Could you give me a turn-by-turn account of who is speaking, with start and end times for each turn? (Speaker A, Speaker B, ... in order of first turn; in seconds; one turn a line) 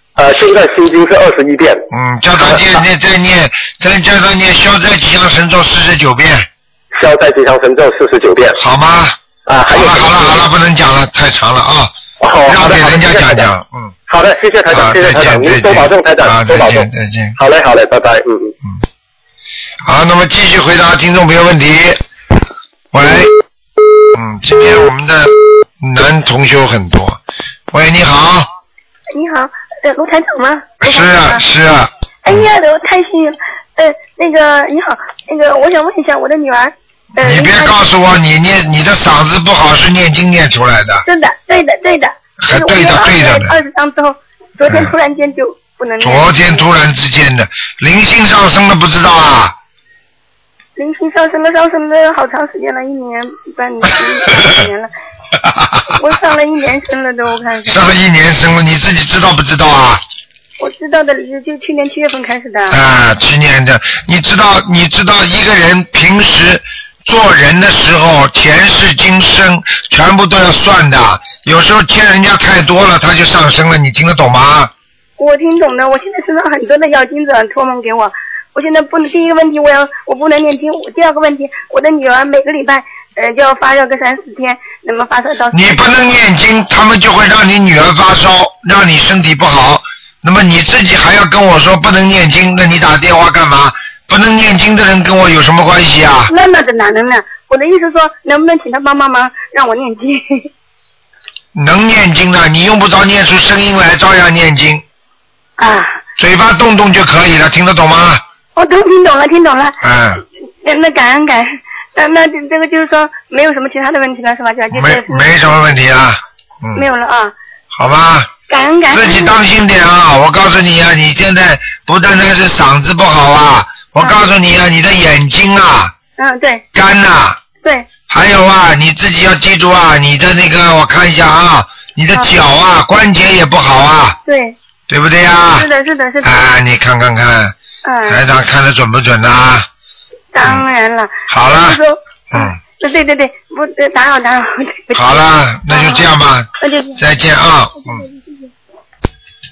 Speaker A: 0.2-2.8
Speaker B: 1.9-6.5
Speaker A: 7.0-8.6
Speaker B: 8.6-9.2
Speaker A: 9.5-10.5
Speaker B: 9.7-11.9
Speaker A: 12.2-13.5
Speaker B: 12.5-13.9
Speaker A: 14.1-18.6
Speaker B: 14.7-17.4
Speaker B: 19.9-22.0
Speaker B: 22.9-23.3
Speaker B: 24.1-27.2
Speaker B: 27.7-28.5
Speaker C: 29.1-31.4
Speaker B: 30.8-32.5
Speaker C: 32.2-37.8
Speaker B: 37.2-41.0
Speaker C: 41.0-46.6
Speaker B: 42.4-43.6
Speaker B: 44.7-44.9
Speaker B: 46.0-49.5
Speaker C: 50.8-54.9
Speaker B: 55.4-56.0
Speaker C: 56.0-57.9
Speaker B: 57.7-60.0
Speaker C: 60.6-62.8
Speaker B: 62.7-74.7
Speaker C: 75.2-85.8
Speaker B: 85.5-96.3
Speaker C: 96.3-100.5
Speaker B: 101.5-104.8
Speaker C: 105.6-106.0
Speaker B: 106.2-108.2
Speaker C: 108.6-109.8
Speaker B: 109.8-110.2
Speaker C: 110.6-115.6
Speaker B: 114.7-116.9
Speaker C: 116.8-117.3
Speaker B: 117.7-118.3
Speaker C: 118.5-119.3
Speaker B: 118.9-125.9
Speaker C: 126.2-126.6
Speaker B: 126.8-127.4
Speaker C: 127.6-127.9
Speaker B: 128.1-134.2
Speaker C: 134.2-134.6
Speaker B: 134.9-135.7
Speaker C: 135.6-136.4
Speaker B: 136.2-137.6
Speaker C: 137.8-138.2
Speaker B: 138.1-139.7
Speaker C: 140.3-146.1
Speaker B: 141.3-141.8
Speaker B: 142.3-142.6
Speaker B: 144.9-148.0
Speaker C: 146.6-147.0
Speaker C: 147.9-148.5